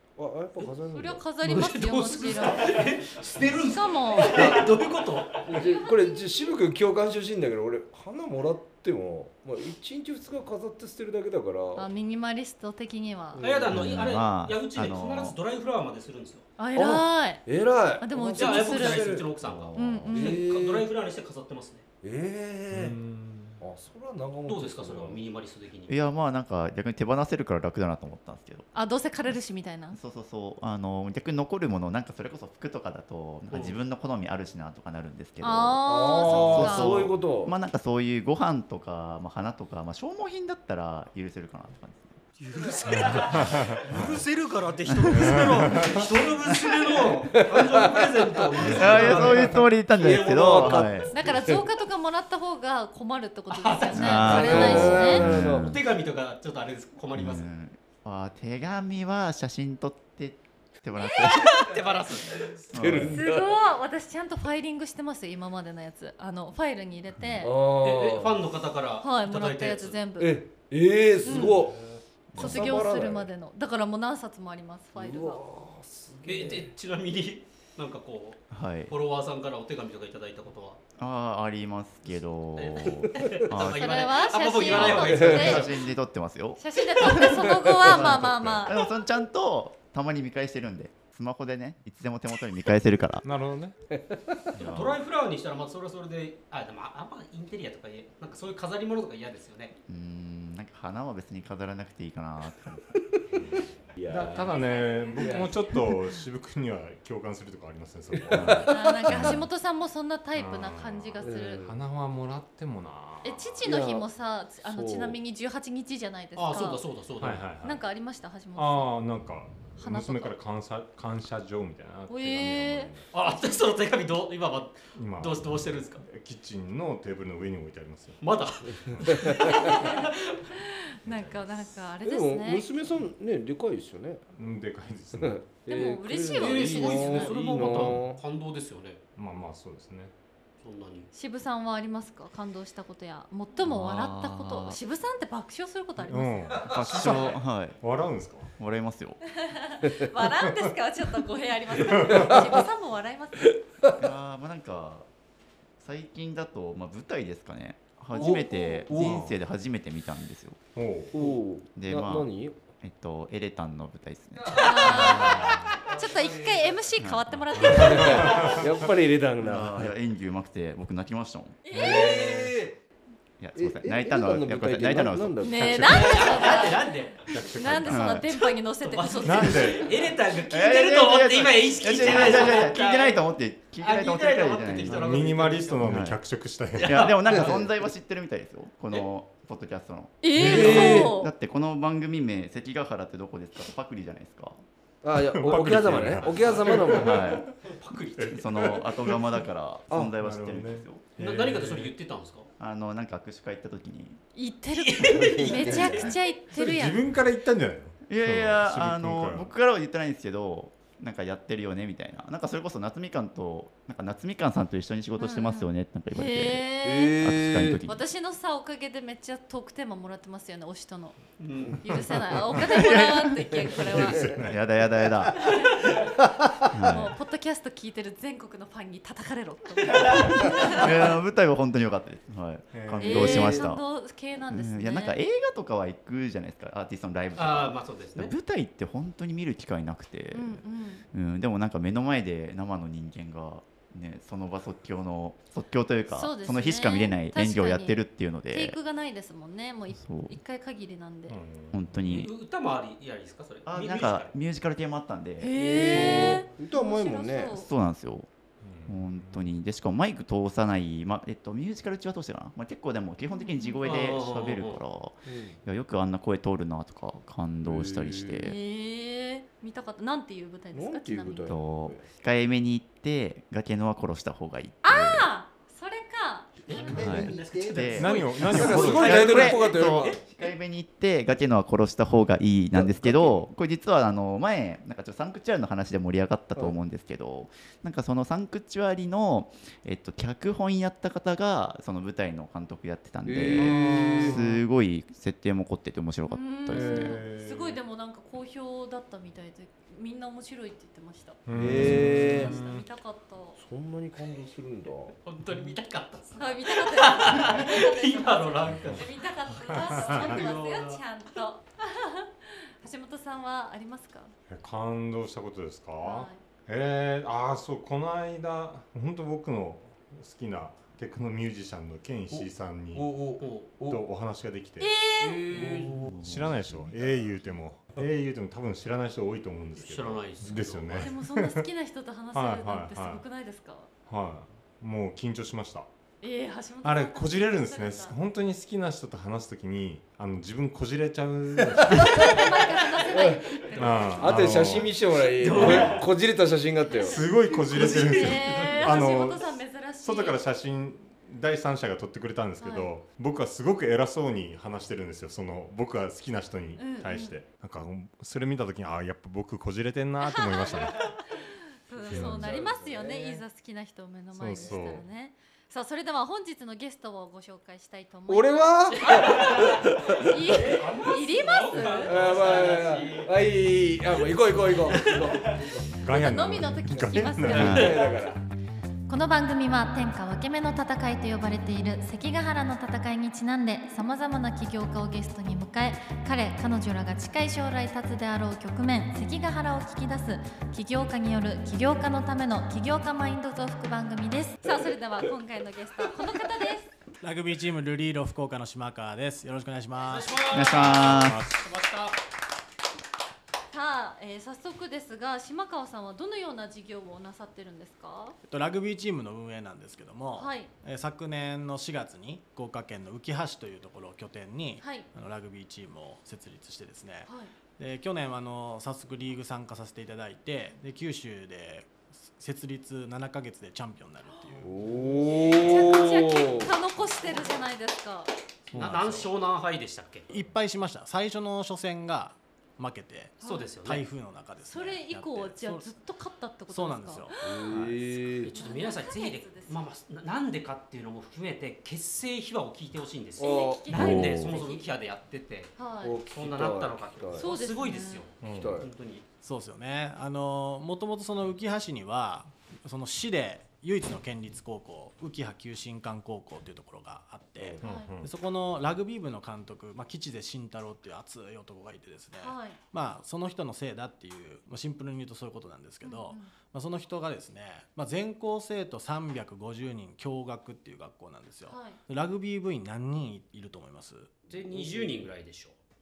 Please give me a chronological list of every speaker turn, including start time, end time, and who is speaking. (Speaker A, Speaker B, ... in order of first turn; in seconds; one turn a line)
Speaker A: 0.2-1.2
Speaker B: 0.9-2.9
Speaker C: 1.4-5.8
Speaker B: 3.5-4.6
Speaker A: 4.2-4.7
Speaker A: 5.3-11.9
Speaker B: 5.6-6.3
Speaker B: 11.8-13.4
Speaker A: 13.3-13.9
Speaker C: 13.4-16.5
Speaker D: 13.7-15.4
Speaker B: 16.6-17.4
Speaker A: 16.8-20.9
Speaker B: 18.0-19.2
Speaker C: 18.4-21.8
Speaker B: 19.8-20.4
Speaker A: 22.0-23.0
Speaker E: 22.7-23.6
Speaker A: 23.6-25.2
Speaker C: 24.5-26.0
Speaker D: 25.9-28.7
Speaker B: 28.7-30.0
Speaker D: 29.9-42.2
Speaker C: 33.5-33.8
Speaker B: 35.4-37.1
Speaker A: 35.9-37.5
Speaker C: 42.4-50.9
Speaker E: 43.0-44.2
Speaker D: 44.9-46.0
Speaker E: 45.1-46.1
Speaker A: 47.0-51.6
Speaker D: 48.6-51.1
Speaker E: 48.7-49.5
Speaker B: 51.1-55.3
Speaker C: 53.5-57.5
Speaker D: 53.9-55.8
Speaker A: 54.2-55.7
Speaker D: 57.1-61.7
Speaker C: 61.2-62.7
Speaker A: 62.4-63.5
Speaker D: 62.7-63.2
Speaker B: 63.1-67.5
Speaker A: 67.4-68.4
Speaker C: 67.7-70.0
Speaker B: 69.0-70.4
Speaker A: 70.2-71.8
Speaker C: 71.2-71.8
Speaker B: 71.2-71.5
Speaker D: 72.3-72.8
Speaker A: 72.3-73.3
Speaker B: 72.3-75.4
Speaker A: 75.0-76.7
Speaker C: 76.3-80.8
Speaker D: 78.5-78.9
Speaker D: 81.0-84.1
Speaker C: 82.5-85.9
Speaker B: 83.6-85.8
Speaker D: 84.7-93.3
Speaker B: 86.6-88.8
Speaker A: 87.1-88.1
Speaker E: 93.2-93.8
Speaker A: 93.9-94.6
Speaker D: 94.5-95.0
Speaker C: 94.6-99.8
Speaker D: 99.9-102.9
Speaker E: 103.3-109.4
Speaker A: 103.9-106.0
Speaker B: 104.5-105.7
Speaker A: 108.3-109.2
Speaker D: 108.4-109.4
Speaker B: 108.7-111.7
Speaker E: 110.3-113.8
Speaker A: 111.2-111.8
Speaker B: 113.2-116.8
Speaker A: 113.6-114.1
Speaker A: 114.6-115.2
Speaker C: 116.4-117.5
Speaker E: 117.2-117.8
Speaker B: 117.6-118.9
Speaker E: 118.5-123.1
Speaker B: 119.8-120.4
Speaker B: 122.1-122.9
Speaker C: 123.1-126.0
Speaker E: 124.9-129.7
Speaker C: 128.2-130.5
Speaker A: 129.2-129.6
Speaker B: 129.4-132.7
Speaker E: 131.0-131.6
Speaker A: 132.0-134.3
Speaker E: 134.3-135.5
Speaker A: 135.2-138.2
Speaker B: 135.7-137.6
Speaker C: 135.7-139.0
Speaker E: 139.2-140.1
Speaker C: 140.6-141.1
Speaker B: 141.1-146.7
Speaker D: 143.6-144.8
Speaker E: 146.0-148.5
Speaker D: 146.6-147.8
Speaker D: 148.5-149.2
Speaker B: 149.4-153.5
Speaker E: 151.8-152.5
Speaker D: 154.0-155.1
Speaker D: 155.8-160.6
Speaker A: 158.1-159.3
Speaker B: 158.2-158.9
Speaker E: 159.0-159.3
Speaker E: 160.8-161.2
Speaker A: 161.1-162.6
Speaker D: 161.8-165.6
Speaker A: 164.4-166.8
Speaker B: 164.5-168.6
Speaker D: 167.0-168.0
Speaker E: 167.6-168.7
Speaker A: 167.6-169.9
Speaker D: 169.4-171.6
Speaker B: 171.6-172.4
Speaker E: 171.7-172.5
Speaker A: 171.7-172.8
Speaker C: 172.2-172.5
Speaker D: 173.4-176.0
Speaker A: 173.6-176.4
Speaker B: 175.4-179.9
Speaker E: 175.7-176.6
Speaker C: 175.9-177.3
Speaker E: 177.3-178.3
Speaker D: 177.8-178.2
Speaker C: 178.8-183.2
Speaker E: 179.2-179.9
Speaker D: 180.5-185.2
Speaker C: 183.8-186.0
Speaker E: 184.9-187.1
Speaker D: 185.8-186.2
Speaker C: 186.8-187.6
Speaker D: 186.8-194.6
Speaker A: 187.3-187.7
Speaker B: 190.2-191.3
Speaker A: 190.4-191.2
Speaker A: 195.0-197.4
Speaker E: 195.2-197.6
Speaker C: 195.9-199.1
Speaker D: 196.8-197.5
Speaker E: 198.2-199.4
Speaker D: 198.3-201.1
Speaker A: 199.9-200.2
Speaker E: 200.2-201.9
Speaker C: 201.2-202.5
Speaker D: 202.6-204.2
Speaker B: 204.3-207.1
Speaker C: 204.8-205.9
Speaker A: 205.0-206.2
Speaker E: 206.5-209.5
Speaker D: 208.1-218.0
Speaker B: 215.2-217.2
Speaker A: 216.8-217.8
Speaker B: 217.8-224.3
Speaker C: 221.4-221.8
Speaker E: 221.9-222.7
Speaker D: 222.7-225.4
Speaker E: 224.1-224.6
Speaker B: 225.4-226.0
Speaker A: 226.3-226.7
Speaker D: 226.7-227.1
Speaker B: 226.8-230.9
Speaker C: 229.9-230.3
Speaker D: 230.3-233.8
Speaker E: 232.7-233.7
Speaker B: 233.0-235.2
Speaker D: 234.5-248.8
Speaker C: 237.4-238.3
Speaker B: 240.3-241.1
Speaker B: 246.1-251.4
Speaker D: 250.0-250.4
Speaker E: 251.3-251.9
Speaker D: 251.7-252.3
Speaker C: 252.1-254.4
Speaker D: 253.7-256.4
Speaker B: 255.4-257.7
Speaker A: 255.6-257.6
Speaker D: 257.5-258.3
Speaker E: 258.6-259.5
Speaker D: 258.9-268.6
Speaker B: 263.3-263.9
Speaker C: 263.8-264.8
Speaker A: 265.3-265.6
Speaker A: 267.6-268.5
Speaker B: 268.4-271.6
Speaker A: 270.7-272.1
Speaker D: 271.4-275.3
Speaker B: 274.8-277.2
Speaker A: 276.6-280.2
Speaker C: 276.7-280.2
Speaker D: 277.0-297.2
Speaker E: 277.9-279.5
Speaker A: 282.7-283.4
Speaker A: 293.2-294.4
Speaker E: 293.6-294.6
Speaker B: 296.2-303.6
Speaker E: 296.7-297.8
Speaker E: 301.5-302.9
Speaker A: 301.5-302.6
Speaker A: 303.6-305.1
Speaker C: 305.2-311.0
Speaker B: 306.3-314.3
Speaker E: 308.7-309.0
Speaker E: 309.7-310.5
Speaker E: 314.5-323.2
Speaker B: 316.0-316.4
Speaker A: 322.3-324.0
Speaker C: 323.4-323.8
Speaker E: 323.8-324.9
Speaker B: 324.8-325.4
Speaker C: 325.2-326.1
Speaker A: 325.5-326.7
Speaker E: 326.2-331.7
Speaker C: 329.8-331.1
Speaker B: 330.9-333.9
Speaker E: 332.3-333.2
Speaker E: 334.1-335.9
Speaker B: 336.2-338.2
Speaker E: 336.8-342.6
Speaker A: 341.7-342.2
Speaker B: 341.9-344.3
Speaker A: 343.1-343.6
Speaker C: 343.7-346.1
Speaker E: 343.8-346.1
Speaker A: 344.2-347.2
Speaker B: 346.9-350.4
Speaker E: 347.0-361.2
Speaker C: 347.6-349.1
Speaker B: 352.6-352.9
Speaker B: 356.8-357.4
Speaker B: 360.2-372.2
Speaker E: 362.0-362.8
Speaker A: 362.0-363.3
Speaker C: 363.0-363.3
Speaker E: 364.3-365.0
Speaker A: 368.3-370.5
Speaker C: 369.0-373.4
Speaker A: 372.0-375.9
Speaker C: 374.2-375.8
Speaker E: 376.0-378.0
Speaker B: 376.0-378.1
Speaker A: 377.0-378.4
Speaker D: 377.5-378.0
Speaker B: 379.1-396.9
Speaker F: 397.2-400.6
Speaker C: 400.0-402.2
Speaker D: 400.5-401.4
Speaker F: 401.1-401.5
Speaker B: 403.7-408.4
Speaker F: 408.5-424.9
Speaker B: 410.3-410.7
Speaker B: 414.8-415.1
Speaker B: 417.3-417.5
Speaker B: 424.3-428.3
Speaker A: 424.6-426.7
Speaker C: 425.2-426.0
Speaker E: 428.7-429.1
Speaker F: 428.7-429.3
Speaker C: 428.8-430.3
Speaker F: 430.3-435.9
Speaker B: 433.4-433.7
Speaker C: 433.4-434.0
Speaker B: 434.6-437.7
Speaker F: 436.7-438.0
Speaker A: 437.4-438.5
Speaker C: 438.4-445.8
Speaker B: 438.5-439.8
Speaker A: 443.4-444.2
Speaker B: 443.4-444.9
Speaker D: 443.9-444.6
Speaker B: 445.8-446.2
Speaker A: 446.0-447.5
Speaker C: 446.3-449.2
Speaker B: 447.4-448.3
Speaker E: 448.4-448.7
Speaker A: 448.5-448.9
Speaker F: 449.4-474.4
Speaker B: 457.8-458.1
Speaker E: 457.8-458.3
Speaker B: 462.4-462.8
Speaker B: 466.0-466.5
Speaker B: 471.7-472.0
Speaker A: 474.5-475.3
Speaker C: 474.5-475.8